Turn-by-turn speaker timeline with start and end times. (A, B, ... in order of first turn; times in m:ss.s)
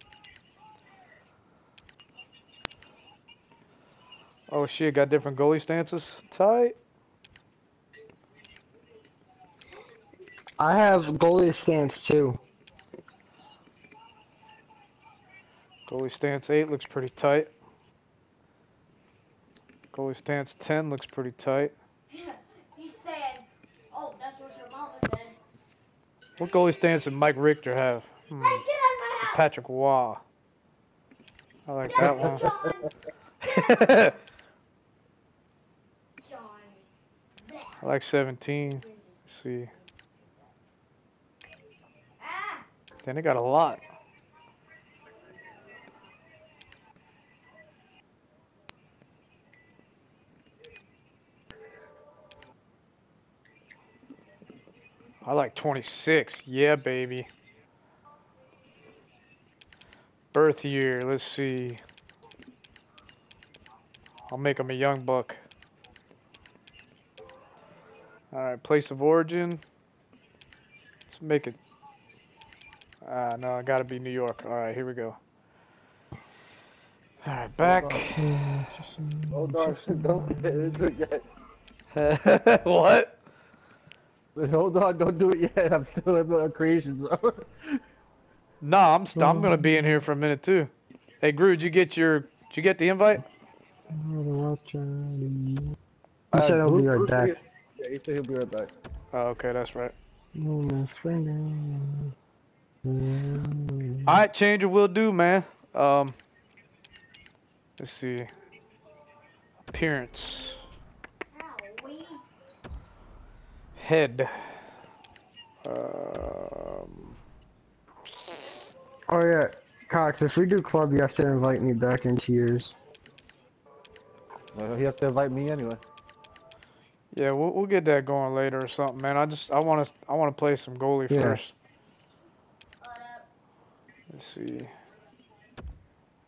0:04.5-0:06.8 A
0:10.6-0:12.4 B
0:15.9-0:17.5 A
0:19.9-0:21.7 A
0:22.1-0:25.4 C
0:26.4-0:28.6 A
0:28.3-0:29.6 C
0:29.3-0:30.2 A
0:31.7-0:32.5 A
0:31.9-0:32.9 C
0:32.0-0:32.3 D
0:33.4-0:34.1 A
0:33.4-0:34.2 C
0:36.2-0:37.8 C
0:37.8-0:39.7 A
0:38.8-0:40.5 C
0:42.2-0:42.7 C
0:43.0-0:43.8 A
0:55.2-0:57.3 A
1:00.3-1:01.8 A
1:04.3-1:05.4 A
1:08.3-1:09.6 A
1:11.1-1:11.6 A
1:13.0-1:15.2 A
1:17.2-1:18.2 A
1:17.6-1:17.9 D
1:17.7-1:20.8 B
1:19.3-1:21.2 D
1:21.9-1:23.1 A
1:24.3-1:27.8 D
1:28.6-1:33.2 A
1:29.1-1:29.9 B
1:33.9-1:35.7 B
1:36.3-1:38.7 D
1:36.3-1:37.4 B
1:39.1-1:39.9 A
1:40.3-1:42.1 B
1:42.8-1:44.2 B
1:44.1-1:46.2 A
1:47.8-1:48.3 A
1:49.7-1:50.6 A
1:51.3-1:52.2 C
1:53.8-1:54.4 A
1:55.6-1:57.1 A
1:59.1-2:02.8 B
2:04.5-2:05.8 D
2:07.1-2:11.5 A
2:11.1-2:11.4 B
2:12.8-2:13.3 C
2:14.1-2:14.7 A